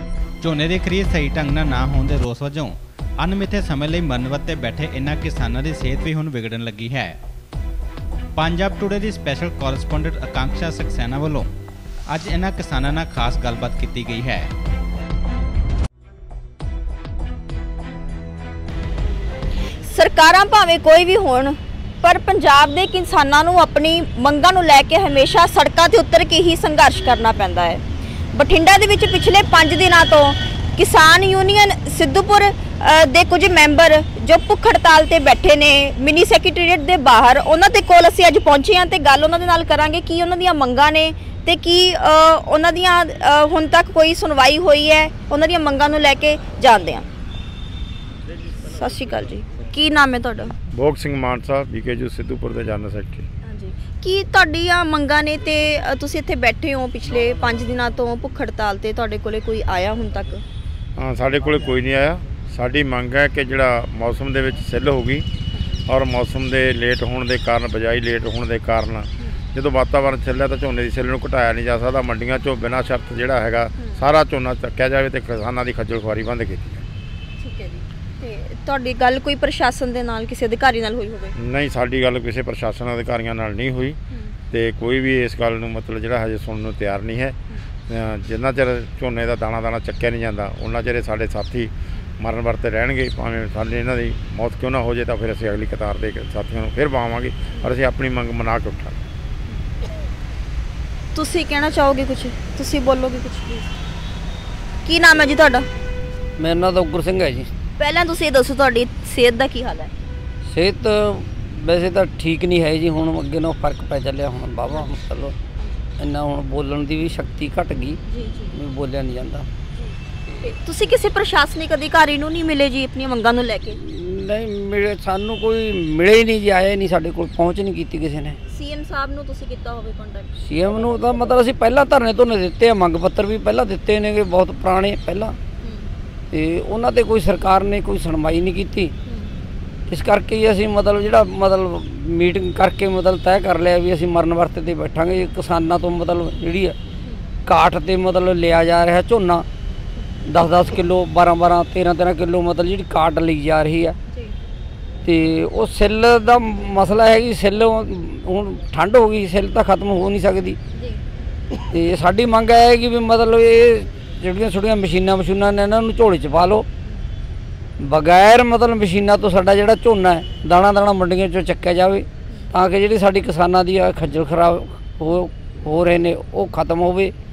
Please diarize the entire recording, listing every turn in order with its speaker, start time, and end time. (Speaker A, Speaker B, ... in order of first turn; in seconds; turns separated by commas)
Speaker A: 0.4-7.2, Speaker A: 8.3-11.5, Speaker A: 12.1-14.5, Speaker B: 19.8-27.8, Speaker B: 28.3-47.0, Speaker B: 48.6-50.5, Speaker C: 50.7-53.2, Speaker B: 53.4-60.4, Speaker C: 61.0-65.3, Speaker B: 65.5-65.9, Speaker C: 65.8-76.8, Speaker B: 77.4-81.3, Speaker C: 81.3-84.0, Speaker C: 84.5-99.0, Speaker B: 101.1-103.7, Speaker B: 104.8-105.7, Speaker D: 106.4-107.5, Speaker B: 107.8-109.9, Speaker D: 110.4-115.3, Speaker D: 116.0-119.5, Speaker B: 118.1-118.5, Speaker B: 119.8-123.8, Speaker D: 123.7-128.4, Speaker B: 128.5-130.4, Speaker D: 130.4-135.4, Speaker B: 135.6-135.9, Speaker D: 136.3-138.9, Speaker B: 139.1-139.3, Speaker D: 139.9-146.8, Speaker D: 147.4-149.4, Speaker D: 150.3-154.0, Speaker D: 155.0-160.6, Speaker B: 160.7-161.0, Speaker D: 161.5-166.7, Speaker D: 167.8-177.1